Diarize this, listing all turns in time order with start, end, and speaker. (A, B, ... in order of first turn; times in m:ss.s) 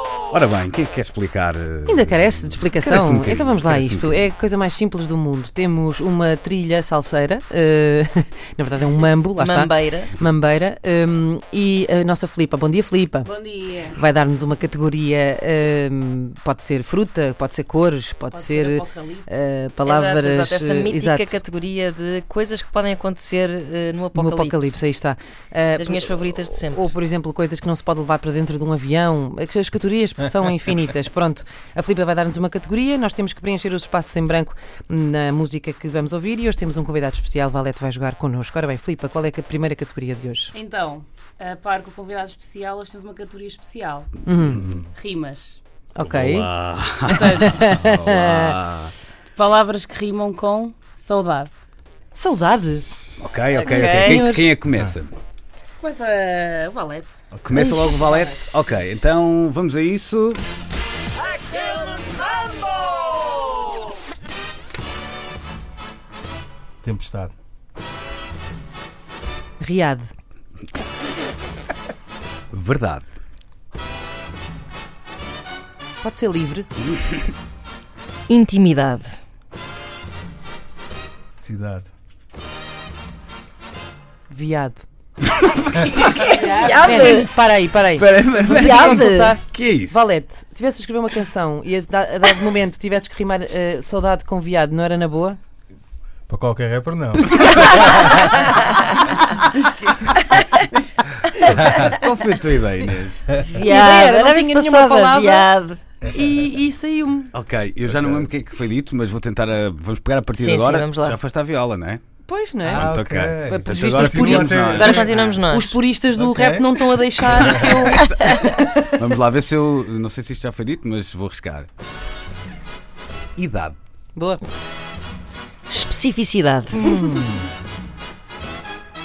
0:00.3-0:04.3 A
0:01.9-0:13.3 B
0:09.4-0:10.1 C
0:13.2-0:14.0 D
0:13.9-0:21.4 B
0:18.3-0:19.4 D
0:19.8-0:24.8 C
0:24.1-0:40.5 B
0:25.7-0:26.9 C
0:40.5-0:44.2 D
0:44.2-0:44.7 B
0:44.5-0:44.9 E
0:44.9-0:45.6 D
0:46.0-0:46.5 B
0:46.0-0:48.9 A
0:47.1-0:47.8 D
0:47.1-0:48.5 B
0:49.3-0:51.5 D
0:52.1-0:52.8 B
0:53.2-0:55.1 A
0:53.5-0:54.4 C
0:53.7-0:54.5 B
0:55.8-0:57.2 D
0:57.3-0:57.7 E
0:57.4-1:00.4 A
0:57.6-0:58.0 B
0:58.0-0:58.4 D
1:06.8-1:07.3 E
1:09.6-1:10.1 B
1:12.5-1:13.1 A
1:16.0-1:16.7 B
1:18.3-1:19.2 C
1:21.4-1:21.9 E
1:24.3-1:24.8 B
1:25.5-1:26.7 A
1:26.3-1:35.4 B
1:26.4-1:27.3 C
1:27.9-1:30.1 A
1:28.5-1:29.3 C
1:36.3-1:38.3 E
1:37.9-1:38.8 C
1:39.5-1:43.4 A
1:43.4-1:45.8 C
1:43.6-1:45.5 B
1:46.1-1:47.3 B
1:47.3-1:52.0 A
1:47.9-1:48.3 E
1:50.3-1:51.2 C
1:52.3-1:52.9 B
1:52.6-1:55.4 A
1:52.7-1:55.1 E
1:53.5-1:58.9 B
1:54.7-1:55.8 C
1:56.2-1:56.7 E
1:57.2-2:01.7 A
1:57.3-1:57.8 E
1:57.9-1:58.5 C
2:03.4-2:03.8 A
2:04.2-2:04.4 B
2:05.7-2:07.0 C
2:06.8-2:07.3 B